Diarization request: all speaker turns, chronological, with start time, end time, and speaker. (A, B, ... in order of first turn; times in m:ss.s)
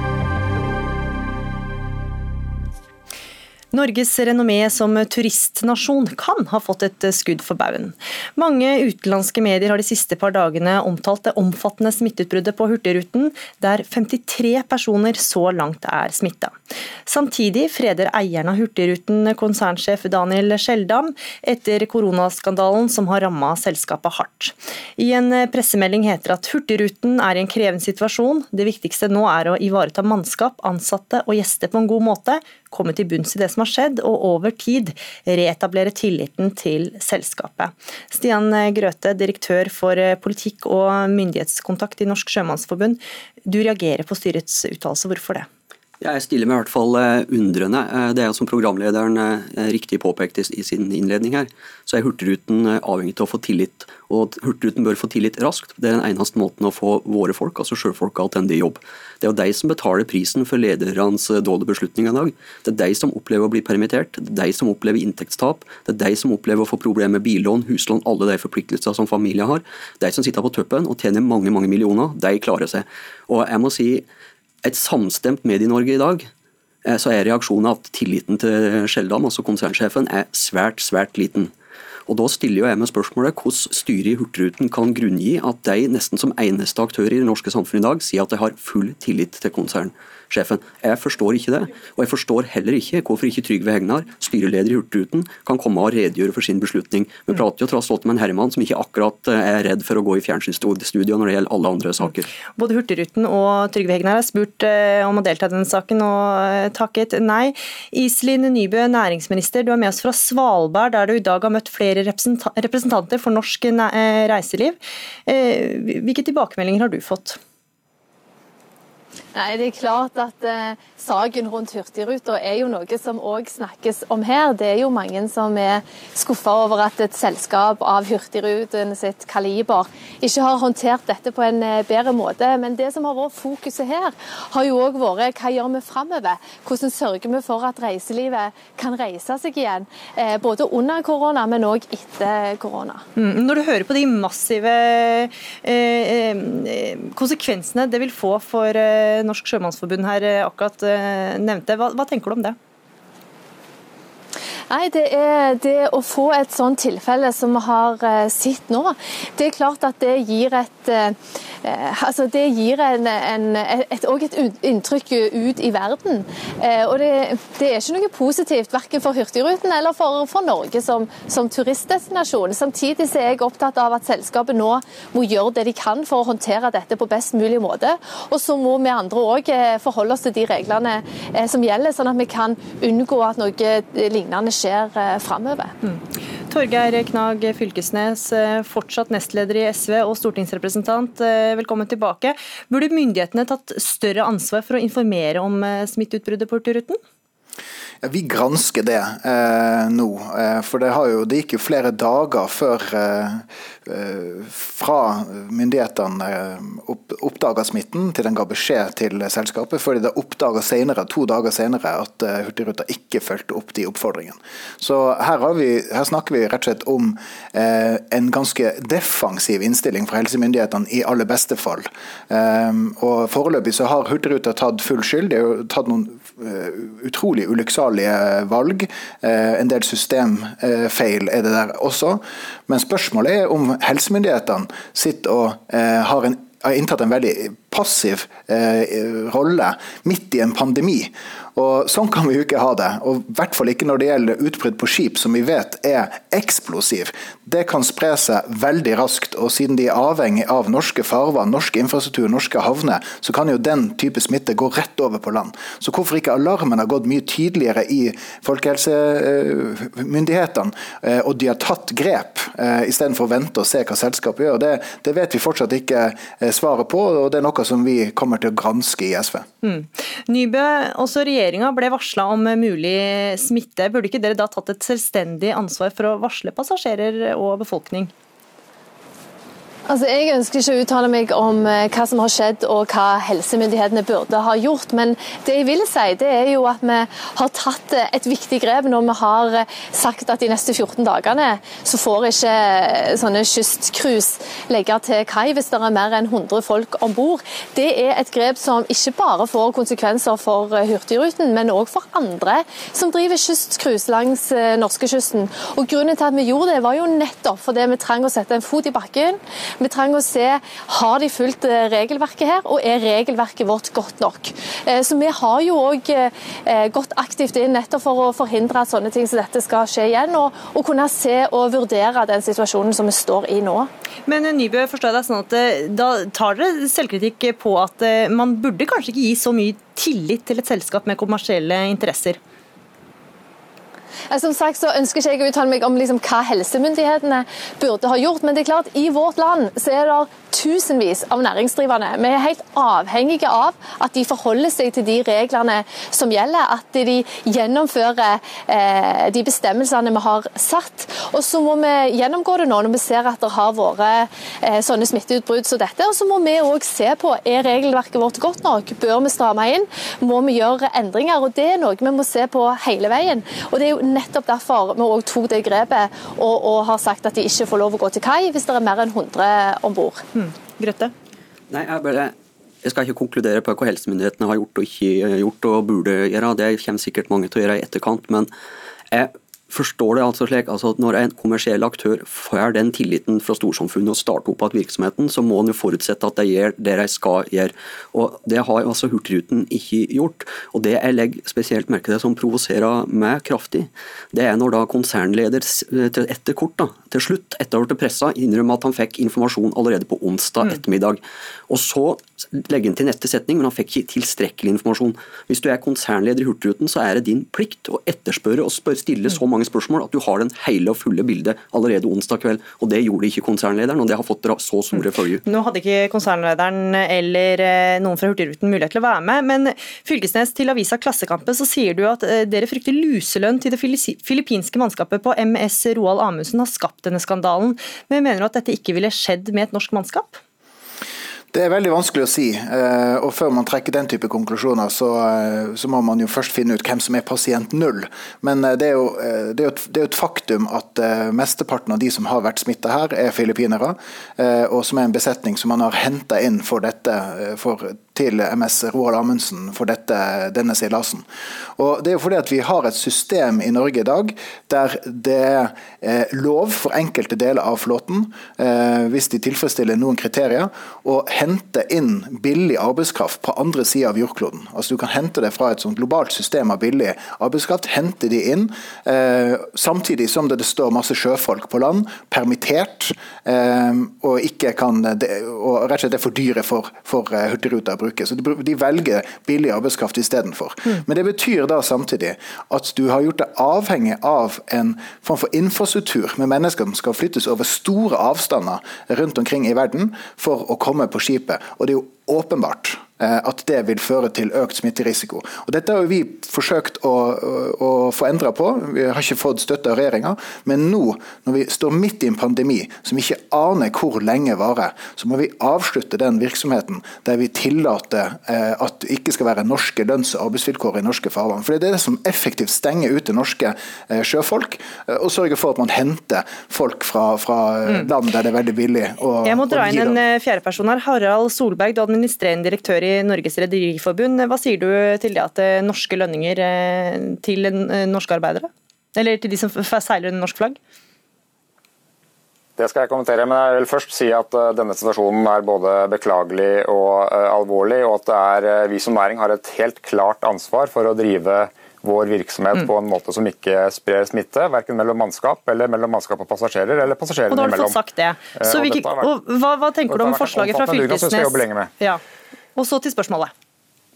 0:03.7-0:16.6 A
0:17.1-0:45.5 A
0:46.0-1:14.0 B
1:14.6-1:16.3 B
1:16.8-1:21.5 B
1:22.1-1:42.3 B
1:42.6-1:57.4 A
1:59.4-2:23.0 C
2:23.2-2:32.6 A
2:34.7-3:05.7 C
3:05.8-3:17.0 A
3:18.0-4:29.5 D
4:29.6-4:38.1 A
4:39.9-5:23.9 C
5:24.3-5:32.4 A
5:34.3-6:10.2 C
6:10.4-6:11.1 A
6:11.7-6:18.5 B
6:19.1-6:55.4 B
6:55.5-7:10.4 A
7:11.5-7:31.2 D
7:31.8-8:40.2 D
8:39.4-8:50.8 A
8:52.8-9:08.0 E
9:07.5-9:12.2 A
9:08.5-9:09.3 E
9:10.1-9:11.9 E
9:12.8-9:13.5 A